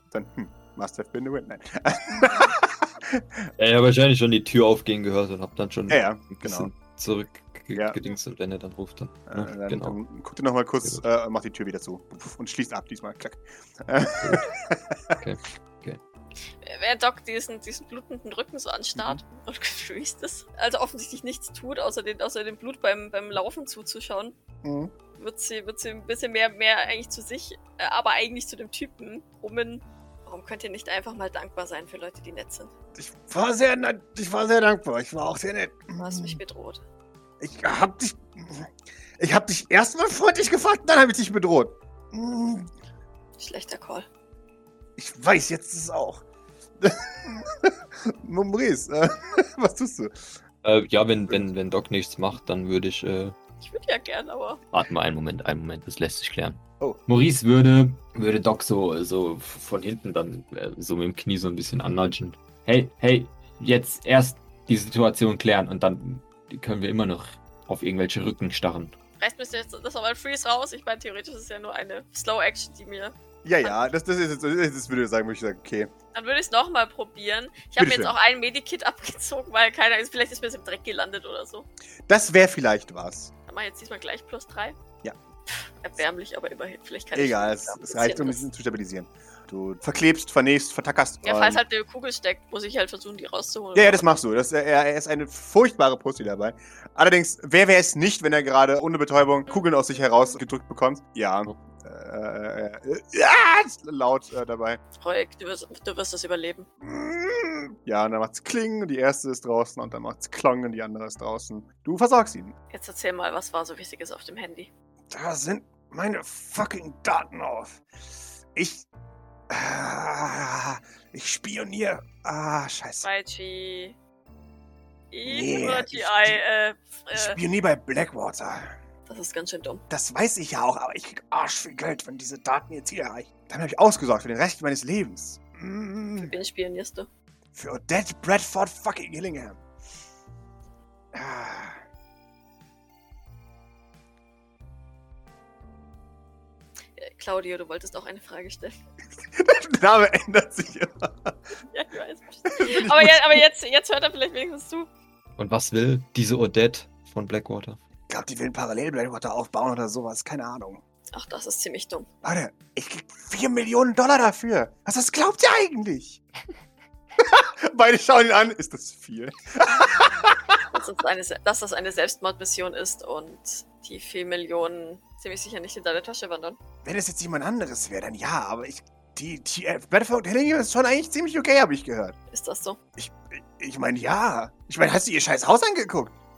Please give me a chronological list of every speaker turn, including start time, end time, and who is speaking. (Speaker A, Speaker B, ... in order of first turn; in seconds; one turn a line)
Speaker A: 0.1-3.5
Speaker B: 3.6-10.0
Speaker A: 5.9-6.7
Speaker A: 7.7-8.0
Speaker A: 9.3-15.2
Speaker B: 14.2-14.5
Speaker B: 15.2-16.0
Speaker C: 16.6-24.3
Speaker A: 18.9-19.2
Speaker A: 24.6-24.9
Speaker C: 25.2-32.7
Speaker A: 33.0-36.4
Speaker C: 36.0-36.8
Speaker A: 37.4-42.7
Speaker C: 43.4-44.1
Speaker A: 45.0-46.2
Speaker A: 46.8-50.2
Speaker B: 50.6-53.3
Speaker C: 53.6-54.6
Speaker B: 54.7-68.9
Speaker C: 69.2-73.8
Speaker A: 73.4-75.9
Speaker C: 76.1-81.7
Speaker A: 77.8-78.1
Speaker A: 82.1-83.3
Speaker C: 83.5-84.8
Speaker C: 85.6-88.5
Speaker A: 87.1-91.6
Speaker C: 91.2-94.2
Speaker A: 93.7-104.8
Speaker C: 99.5-100.4
Speaker C: 104.9-106.7
Speaker A: 106.8-112.5
Speaker C: 112.7-114.7
Speaker A: 115.1-117.8
Speaker A: 118.5-118.8
Speaker A: 119.5-123.1
Speaker C: 123.0-124.0
Speaker C: 125.1-127.4
Speaker A: 125.2-126.4
Speaker A: 127.1-128.7
Speaker C: 129.1-129.8
Speaker A: 129.9-136.3
Speaker C: 136.2-137.1
Speaker A: 137.5-139.6
Speaker A: 141.1-141.8
Speaker C: 146.9-148.8
Speaker A: 149.3-151.3
Speaker C: 151.7-154.9
Speaker A: 152.5-153.4
Speaker B: 155.4-157.8
Speaker A: 158.1-160.8
Speaker C: 161.1-162.1
Speaker A: 162.2-166.2
Speaker A: 167.2-170.6
Speaker C: 170.7-176.6
Speaker A: 176.8-182.1
Speaker C: 182.3-182.8
Speaker A: 183.0-186.1